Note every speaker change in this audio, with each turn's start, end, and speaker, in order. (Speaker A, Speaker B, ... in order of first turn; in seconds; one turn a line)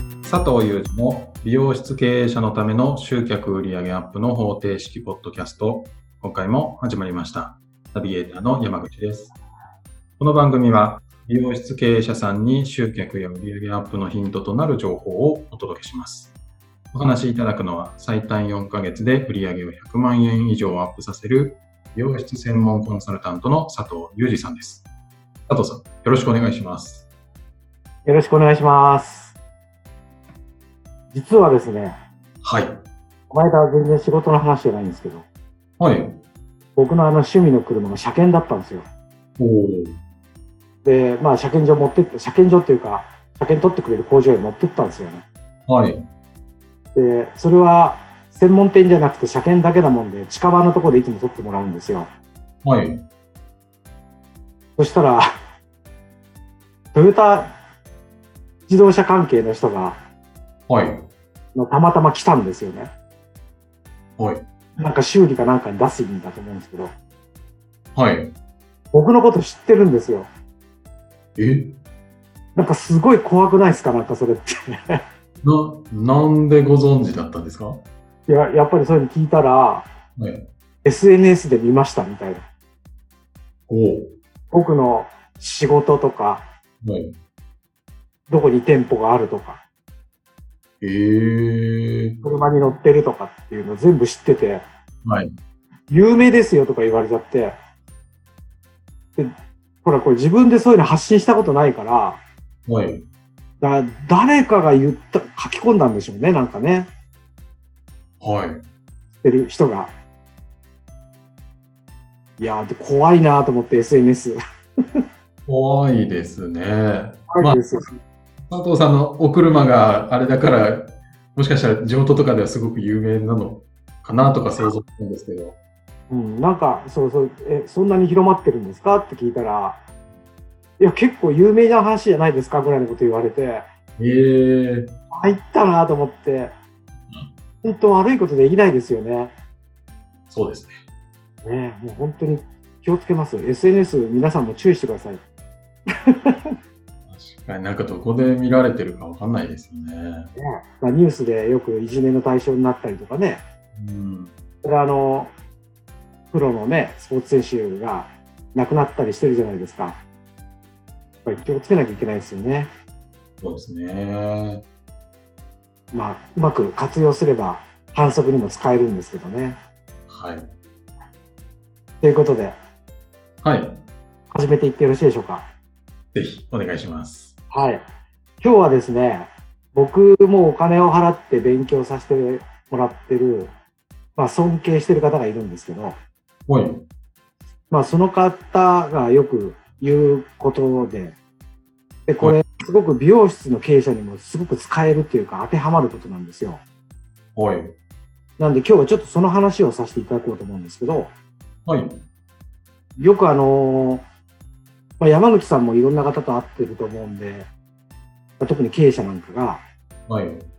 Speaker A: 0.2-9.3
Speaker A: 10.2-16.3
Speaker A: 16.9-24.9
Speaker A: 25.5-27.1
Speaker B: 28.1-29.4
Speaker B: 31.1-32.0
Speaker A: 32.4-32.8
Speaker B: 33.3-35.3
Speaker A: 35.8-36.2
Speaker B: 36.8-38.9
Speaker A: 39.4-40.0
Speaker B: 40.8-45.2
Speaker A: 45.7-46.0
Speaker B: 47.0-52.1
Speaker A: 52.6-53.0
Speaker B: 54.8-55.2
Speaker B: 56.9-57.5
Speaker B: 58.7-60.0
Speaker A: 60.7-61.1
Speaker B: 61.5-62.9
Speaker A: 64.2-64.4
Speaker B: 64.8-66.9
Speaker A: 67.9-68.3
Speaker B: 68.9-70.3
Speaker A: 71.4-71.8
Speaker B: 72.5-75.0
Speaker A: 75.4-77.8
Speaker B: 78.3-79.9
Speaker A: 80.2-80.5
Speaker B: 80.8-82.4
Speaker A: 83.7-84.2
Speaker B: 84.5-86.5
Speaker A: 86.8-87.2
Speaker B: 88.3-89.6
Speaker A: 90.8-92.2
Speaker B: 92.2-94.6
Speaker A: 95.0-95.3
Speaker B: 95.9-97.6
Speaker B: 99.8-102.2
Speaker A: 102.7-103.0
Speaker B: 103.6-106.9
Speaker A: 108.2-108.6
Speaker B: 109.2-109.9
Speaker B: 112.4-114.4
Speaker A: 115.5-117.6
Speaker B: 117.3-117.9
Speaker A: 118.5-125.6
Speaker B: 126.1-129.8
Speaker B: 130.8-133.7
Speaker A: 134.0-134.9
Speaker B: 135.1-136.5
Speaker B: 137.6-139.3
Speaker A: 140.3-140.8
Speaker B: 141.4-145.2
Speaker B: 146.1-146.5
Speaker A: 147.1-150.3
Speaker B: 150.4-153.4
Speaker A: 153.8-154.3
Speaker B: 154.6-155.3
Speaker B: 156.3-160.0
Speaker B: 161.2-162.7
Speaker A: 163.4-164.6
Speaker B: 165.9-169.6
Speaker A: 170.1-170.5
Speaker B: 172.0-172.6
Speaker A: 173.4-173.8
Speaker B: 174.3-175.5
Speaker A: 176.1-177.3
Speaker B: 177.5-177.8
Speaker B: 178.4-183.5
Speaker B: 184.2-186.0
Speaker A: 186.5-186.8
Speaker B: 187.7-191.2
Speaker B: 192.1-196.6
Speaker A: 197.3-197.8
Speaker B: 198.4-201.1
Speaker A: 201.7-202.0
Speaker B: 203.0-204.0
Speaker B: 205.0-207.5
Speaker B: 208.4-209.6
Speaker A: 210.1-210.5